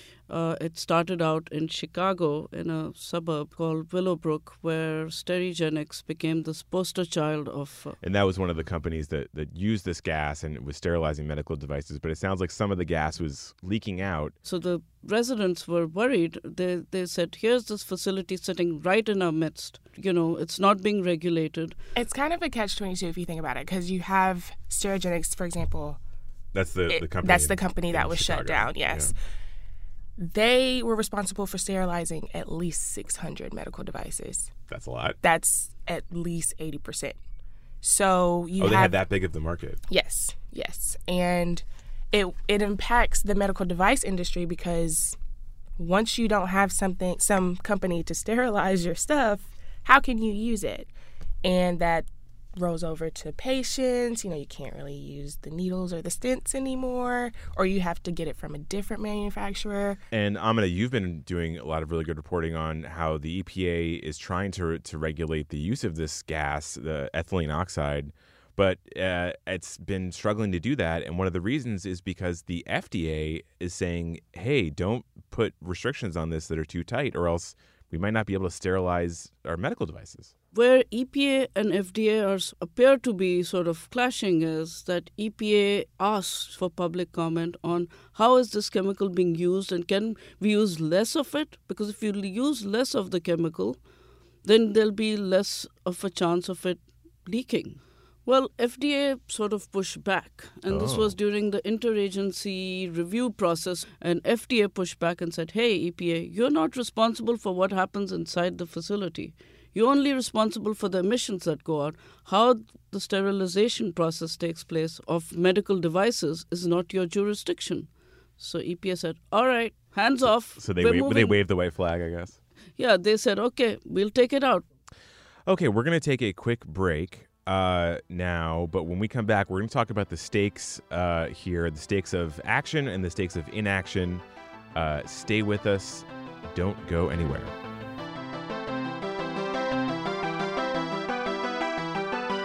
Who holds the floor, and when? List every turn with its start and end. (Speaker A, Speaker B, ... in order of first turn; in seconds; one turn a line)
Speaker A: 0.3-8.0
Speaker B: 8.0-14.3
Speaker A: 14.4-21.8
Speaker C: 22.0-26.0
Speaker B: 26.6-29.1
Speaker C: 26.9-29.1
Speaker C: 30.2-34.5
Speaker B: 34.7-35.2
Speaker C: 35.2-37.2
Speaker C: 37.8-39.0
Speaker B: 38.6-39.8
Speaker C: 39.9-45.2
Speaker C: 45.8-50.9
Speaker C: 51.4-60.0
Speaker B: 60.1-80.3
Speaker A: 80.5-93.8
Speaker A: 94.4-121.4
Speaker B: 100.7-101.2
Speaker B: 120.6-122.4
Speaker A: 122.8-124.7
Speaker B: 125.5-134.2
Speaker B: 134.8-137.5